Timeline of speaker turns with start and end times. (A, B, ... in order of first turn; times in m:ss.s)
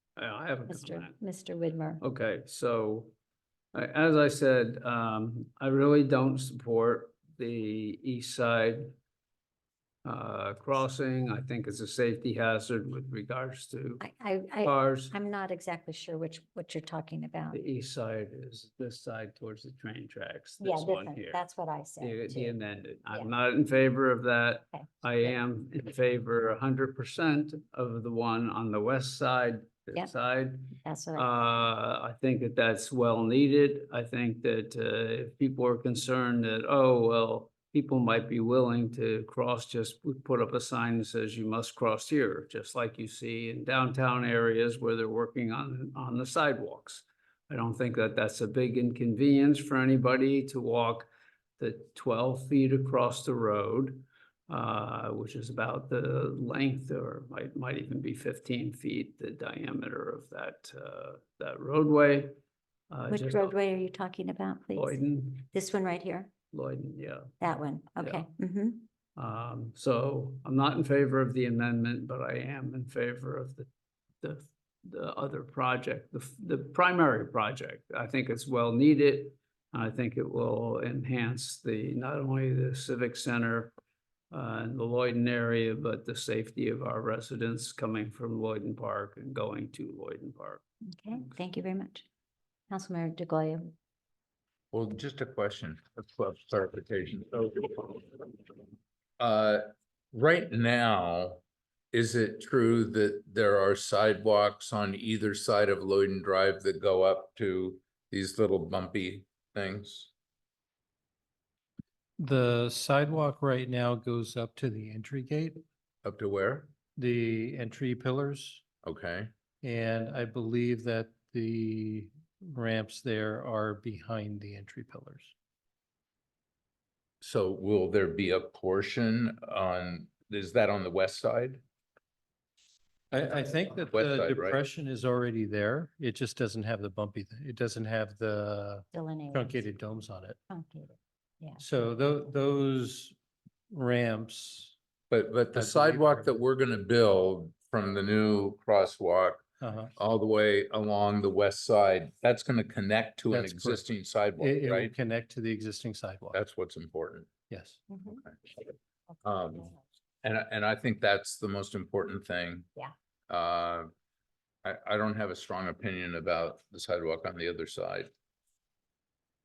0:00.2-0:01.1 A
0:00.7-0:02.0 B
0:02.0-0:03.1 A
0:03.7-0:09.0 A
0:10.0-0:14.0 A
0:14.0-0:17.6 B
0:14.6-0:15.1 A
0:17.5-0:21.4 A
0:20.6-0:22.6 B
0:22.0-1:02.3 A
0:24.7-0:25.4 B
0:30.8-0:31.4 B
1:02.9-1:03.5 A
1:03.1-1:06.3 B
1:04.7-1:05.4 A
1:06.5-1:07.4 A
1:07.4-1:08.8 B
1:08.0-1:08.2 A
1:09.2-1:13.7 A
1:14.2-1:23.7 A
1:24.3-1:30.6 A
1:30.9-1:32.0 B
1:32.7-1:33.7 B
1:34.7-1:38.4 C
1:39.2-1:50.1 C
1:52.2-1:55.6 D
1:56.0-1:56.7 C
1:57.0-1:58.6 D
1:58.8-1:59.3 C
1:59.6-2:05.3 D
2:07.2-2:11.6 C
2:13.1-2:20.4 D
2:13.8-2:14.6 C
2:18.9-2:19.6 B
2:20.5-2:21.6 B
2:21.6-2:23.1 D
2:23.7-2:24.7 D
2:25.1-2:29.4 C
2:25.5-2:26.3 D
2:29.6-2:29.9 D
2:30.0-2:34.9 C
2:33.3-2:33.8 D
2:34.4-2:36.4 D
2:36.3-2:37.3 C
2:37.5-2:37.8 D
2:37.9-2:38.2 B
2:38.2-2:38.5 C
2:39.2-2:39.7 C
2:40.2-2:42.7 C
2:43.3-2:43.9 C
2:44.6-2:48.1 C